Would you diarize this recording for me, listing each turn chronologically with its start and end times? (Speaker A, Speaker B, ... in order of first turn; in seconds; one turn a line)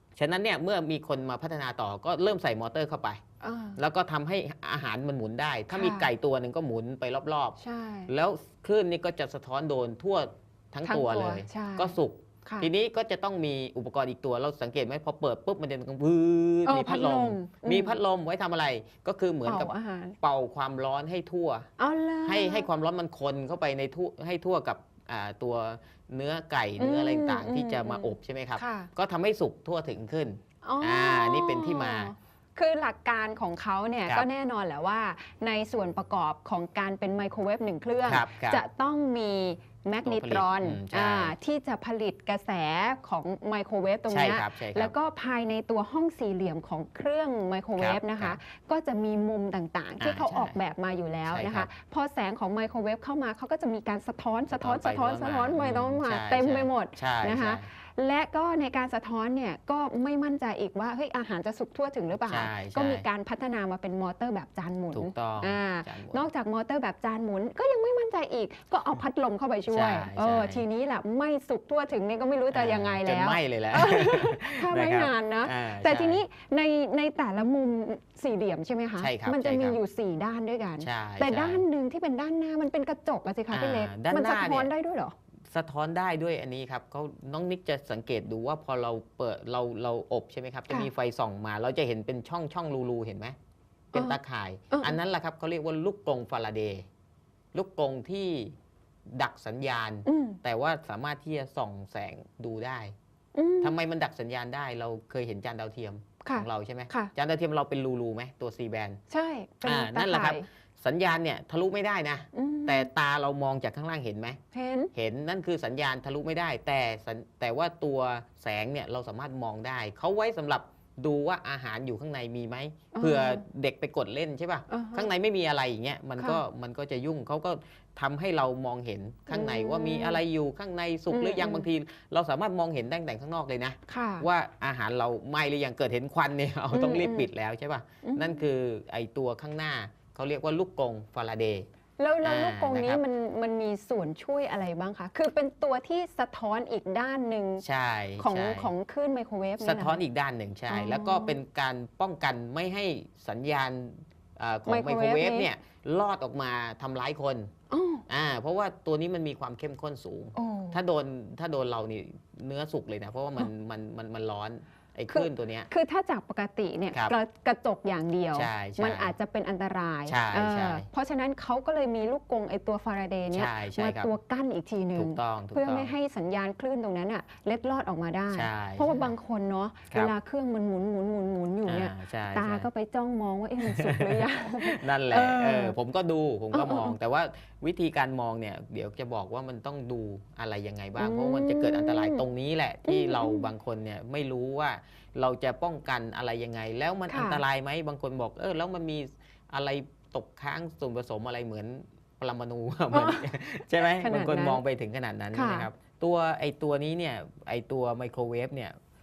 Speaker A: 0.1-3.2
Speaker B: 3.4-3.8
Speaker A: 3.8-21.7
Speaker B: 5.7-6.1
Speaker B: 7.6-8.1
Speaker B: 10.8-12.7
Speaker B: 16.6-18.0
Speaker B: 19.4-20.2
Speaker B: 21.8-22.7
Speaker A: 22.2-32.1
Speaker B: 26.8-28.9
Speaker B: 30.6-85.1
Speaker A: 38.0-38.6
Speaker A: 40.0-41.3
Speaker A: 44.1-44.9
Speaker A: 47.8-48.4
Speaker A: 50.0-50.5
Speaker A: 51.3-51.7
Speaker A: 54.5-57.6
Speaker A: 62.2-63.0
Speaker A: 64.9-66.2
Speaker A: 69.7-70.6
Speaker A: 72.5-76.2
Speaker A: 79.0-79.8
Speaker A: 80.8-81.6
Speaker A: 83.5-84.7
Speaker A: 85.5-93.3
Speaker A: 93.9-96.8
Speaker B: 94.7-95.0
Speaker A: 97.5-98.5
Speaker A: 99.1-102.9
Speaker B: 100.0-100.4
Speaker B: 103.3-103.8
Speaker A: 103.6-109.0
Speaker B: 106.2-107.1
Speaker B: 109.1-110.5
Speaker A: 109.6-114.4
Speaker B: 112.3-112.9
Speaker B: 114.5-114.9
Speaker A: 114.9-141.7
Speaker B: 122.9-123.4
Speaker B: 124.7-125.1
Speaker B: 126.2-126.4
Speaker B: 129.3-130.2
Speaker B: 131.1-131.7
Speaker B: 133.9-134.3
Speaker B: 136.7-137.3
Speaker B: 138.0-138.4
Speaker B: 142.0-147.6
Speaker A: 142.2-143.0
Speaker A: 147.6-148.7
Speaker B: 148.2-150.0
Speaker A: 149.6-157.5
Speaker B: 150.7-151.4
Speaker B: 154.7-155.5
Speaker B: 157.7-158.0
Speaker A: 158.1-165.7
Speaker B: 160.3-160.8
Speaker B: 165.1-185.8
Speaker A: 168.3-169.1
Speaker A: 170.1-170.9
Speaker A: 173.3-174.1
Speaker A: 174.9-175.9
Speaker A: 178.3-179.1
Speaker A: 181.7-182.7
Speaker A: 183.6-208.8
Speaker B: 186.5-186.9
Speaker B: 191.0-192.2
Speaker B: 192.8-193.5
Speaker B: 197.1-197.4
Speaker B: 202.9-204.6
Speaker B: 205.3-205.7